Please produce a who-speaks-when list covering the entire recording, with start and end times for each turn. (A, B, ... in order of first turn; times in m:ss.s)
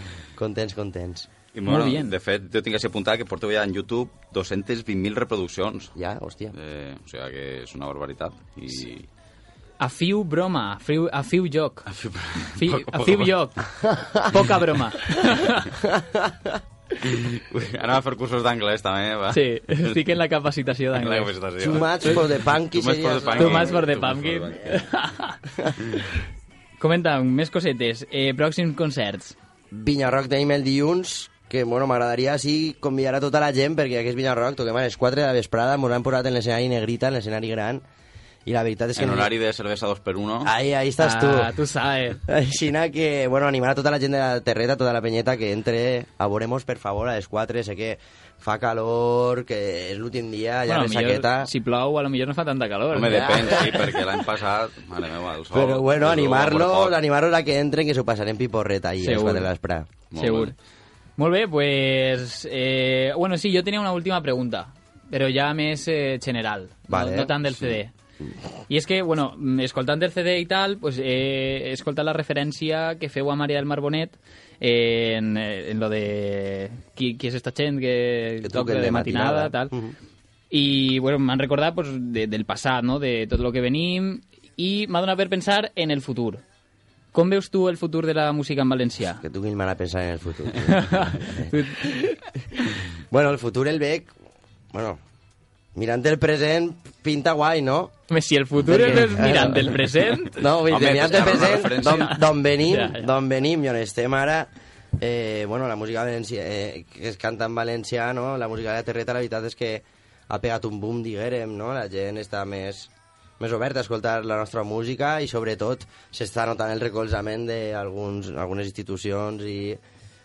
0:00.4-0:01.3 A
0:01.5-0:05.9 B
0:01.7-0:02.1 C
0:06.0-0:06.5 A
0:06.5-0:09.1 B
0:09.8-0:11.9 C
0:11.9-0:13.4 B
0:12.6-0:13.6 C
0:14.2-0:15.7 C
0:15.8-0:16.5 A
0:17.0-0:20.0 B
0:19.3-0:21.3 C
0:21.0-0:24.8 B
0:21.6-0:23.8 A
0:23.4-0:25.4 C
0:26.8-0:29.4 C
0:29.7-0:37.8 A
0:38.5-0:39.3 A
0:39.0-0:40.5 B
0:40.4-0:41.5 A
0:41.0-0:42.2 C
0:42.3-0:51.5 A
0:50.7-0:53.6 C
0:52.9-0:57.0 B
0:53.0-0:53.9 A
0:55.5-0:59.9 A
0:59.0-0:59.5 C
1:00.1-1:00.5 B
1:00.2-1:00.5 C
1:01.2-1:07.9 C
1:06.9-1:07.4 A
1:08.7-1:19.7 C
1:18.4-1:20.0 A
1:20.5-1:26.4 C
1:27.1-1:29.2 C
1:29.2-1:34.1 A
1:30.7-1:32.0 C
1:34.7-1:35.0 A
1:35.8-1:37.9 A
1:38.1-1:40.4 C
1:38.6-1:39.7 A
1:40.3-1:59.8 A
1:40.6-1:42.2 B
1:41.8-1:43.1 C